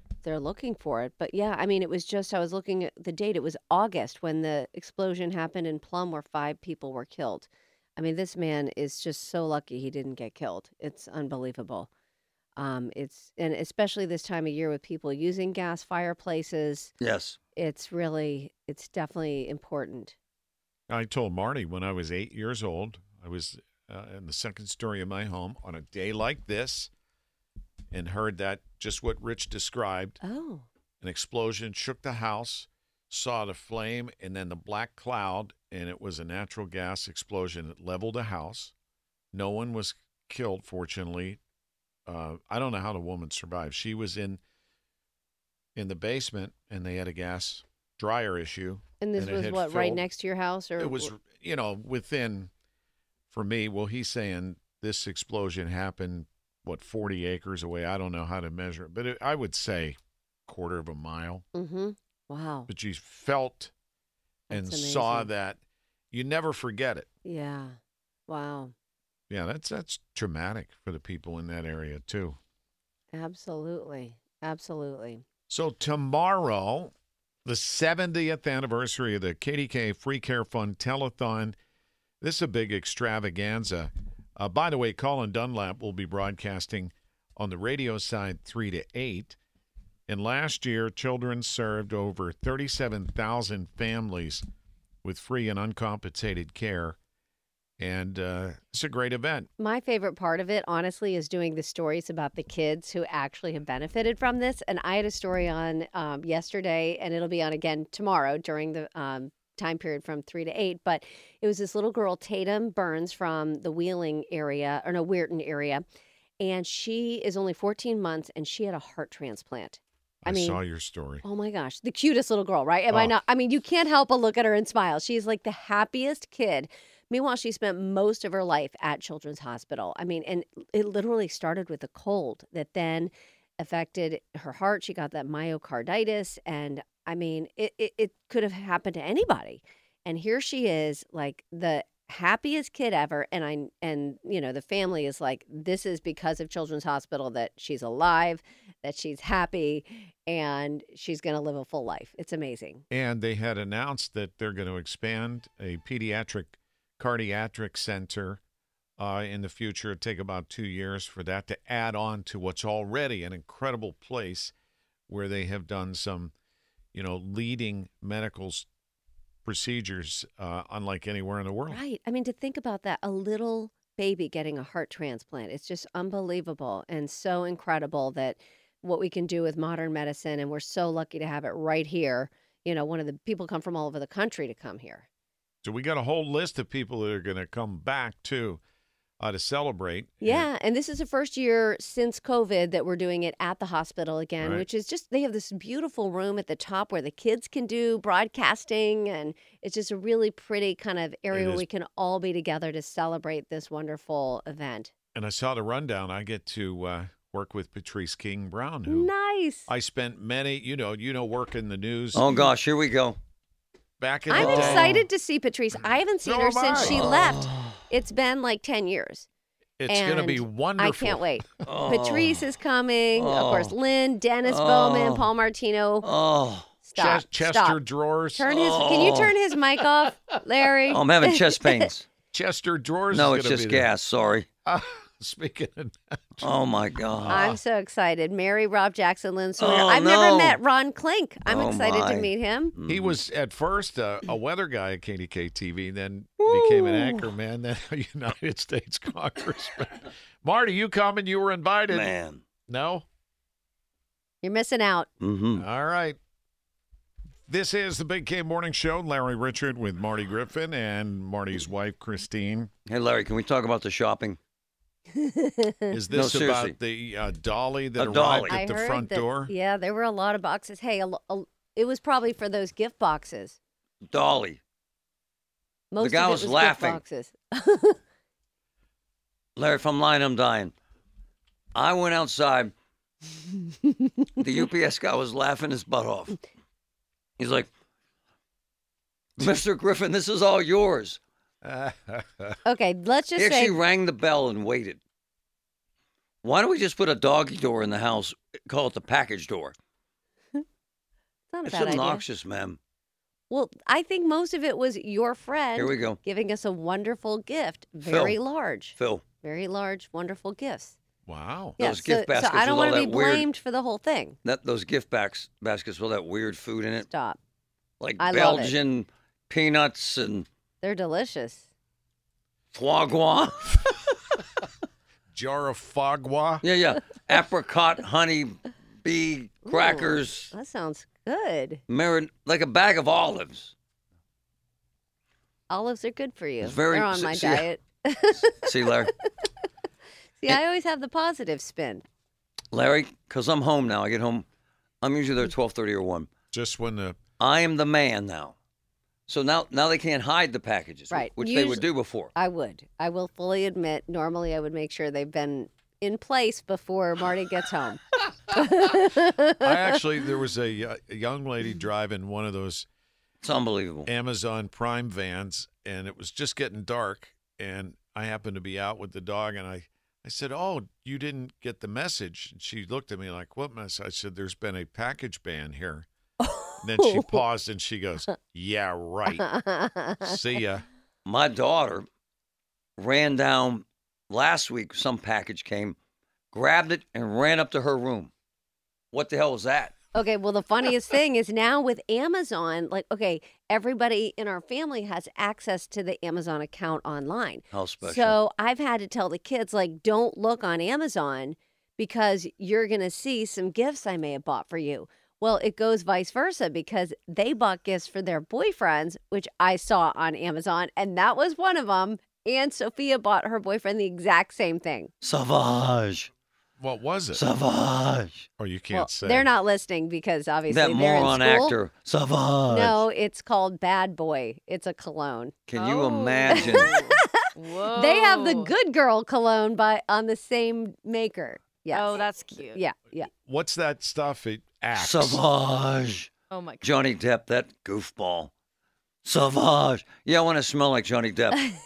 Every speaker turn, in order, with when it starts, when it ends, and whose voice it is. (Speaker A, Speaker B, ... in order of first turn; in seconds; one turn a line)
Speaker A: 0.2-11.9
Speaker A: 12.6-16.9
Speaker B: 17.0-17.4
Speaker A: 17.6-20.1
Speaker C: 20.9-26.9
Speaker C: 27.9-30.2
Speaker A: 30.2-30.6
Speaker C: 31.0-38.7
Speaker C: 39.3-41.4
Speaker C: 42.1-44.4
Speaker C: 45.7-50.0
Speaker A: 49.0-51.1
Speaker C: 50.8-52.5
Speaker C: 53.3-61.4
Speaker A: 61.5-62.7
Speaker C: 62.7-63.7
Speaker A: 64.5-65.3
Speaker C: 64.5-65.6
Speaker C: 66.1-67.1
Speaker A: 67.2-67.8
Speaker A: 68.3-68.7
Speaker C: 69.3-72.4
Speaker A: 73.1-75.2
Speaker C: 75.5-76.9
Speaker C: 77.4-81.5
Speaker C: 82.2-89.4
Speaker C: 90.1-94.4
Speaker C: 95.0-97.0
Speaker C: 97.8-99.5
Speaker A: 99.6-115.8
Speaker A: 116.4-120.6
Speaker C: 120.2-121.2
Speaker A: 121.2-152.8
Speaker C: 152.9-158.4
Speaker C: 159.0-164.5
Speaker C: 165.1-166.3
Speaker C: 166.9-168.7
Speaker C: 169.4-171.8
Speaker A: 171.7-185.1
Speaker C: 185.6-188.6
Speaker C: 189.2-190.5
Speaker A: 190.2-204.9
Speaker C: 201.3-201.6
Speaker C: 205.1-209.1
Speaker A: 208.9-209.7
Speaker C: 209.7-212.3
Speaker B: 212.1-213.2
Speaker C: 214.0-215.0
Speaker A: 214.3-219.2
Speaker B: 214.3-215.0
Speaker C: 216.2-217.1
Speaker B: 216.8-217.8
Speaker C: 219.8-221.7
Speaker A: 219.9-226.1
Speaker B: 221.7-222.5
Speaker B: 223.1-223.7
Speaker B: 224.4-225.3
Speaker B: 226.0-226.7
Speaker A: 226.8-227.8
Speaker C: 226.9-228.5
Speaker A: 228.3-231.8
Speaker B: 228.5-229.4
Speaker B: 230.9-232.1
Speaker C: 232.3-233.9
Speaker B: 233.1-234.5
Speaker C: 234.6-236.5
Speaker B: 236.4-237.5
Speaker C: 237.2-237.6
Speaker A: 237.3-242.7
Speaker B: 239.6-240.6
Speaker B: 241.5-243.2
Speaker C: 242.9-252.1
Speaker A: 246.4-247.2
Speaker B: 251.9-252.4
Speaker C: 252.7-253.0
Speaker A: 254.4-255.1
Speaker B: 255.2-255.6
Speaker C: 255.5-256.2
Speaker C: 257.5-262.7
Speaker B: 262.9-264.4
Speaker A: 265.1-266.0
Speaker C: 265.9-269.5
Speaker B: 266.1-266.8
Speaker B: 268.0-268.6
Speaker A: 268.5-273.6
Speaker B: 274.1-274.6
Speaker A: 275.9-278.0
Speaker B: 276.0-277.0
Speaker B: 279.6-280.7
Speaker B: 281.7-282.7
Speaker B: 284.4-286.4
Speaker B: 287.4-287.7
Speaker B: 289.4-291.2
Speaker C: 291.6-292.6
Speaker A: 292.6-293.8
Speaker B: 293.4-295.0
Speaker B: 296.4-299.7
Speaker A: 301.5-302.2
Speaker B: 301.6-302.8
Speaker A: 303.5-310.9
Speaker B: 305.8-306.2
Speaker B: 308.0-308.4
Speaker B: 309.0-309.2
Speaker C: 311.2-311.8
Speaker A: 311.8-314.4
Speaker B: 311.8-313.5
Speaker B: 314.4-317.1
Speaker A: 317.0-317.4
Speaker B: 318.0-320.5
Speaker A: 318.2-318.7
Speaker A: 320.8-321.7
Speaker B: 322.7-323.9
Speaker C: 325.3-326.6
Speaker B: 326.6-330.5
Speaker A: 329.7-331.8
Speaker B: 331.9-333.7
Speaker A: 335.7-339.1
Speaker B: 336.6-337.7
Speaker B: 338.5-339.1
Speaker A: 340.4-342.0
Speaker B: 342.7-344.4
Speaker B: 345.0-346.3
Speaker C: 346.5-347.2
Speaker B: 347.4-348.5
Speaker B: 349.3-352.3
Speaker A: 351.1-359.7
Speaker C: 359.6-362.9
Speaker B: 363.4-364.1
Speaker C: 364.1-376.1
Speaker A: 376.4-377.4
Speaker C: 376.8-379.4
Speaker A: 379.4-380.4
Speaker C: 380.2-380.8
Speaker B: 381.2-382.1
Speaker B: 383.0-385.9
Speaker B: 386.5-388.3
Speaker B: 389.1-389.9
Speaker A: 390.1-415.1
Speaker B: 397.7-398.4
Speaker B: 415.2-416.3
Speaker C: 416.8-417.4
Speaker B: 417.3-418.5
Speaker C: 418.6-419.5
Speaker A: 418.9-421.8
Speaker B: 420.7-423.0
Speaker A: 422.7-425.6
Speaker B: 425.7-427.0
Speaker D: 425.7-428.7
Speaker A: 426.5-433.3
Speaker D: 431.9-432.8
Speaker C: 433.3-435.4
Speaker B: 434.9-436.3
Speaker D: 436.5-436.9
Speaker B: 436.8-438.5
Speaker B: 439.2-441.6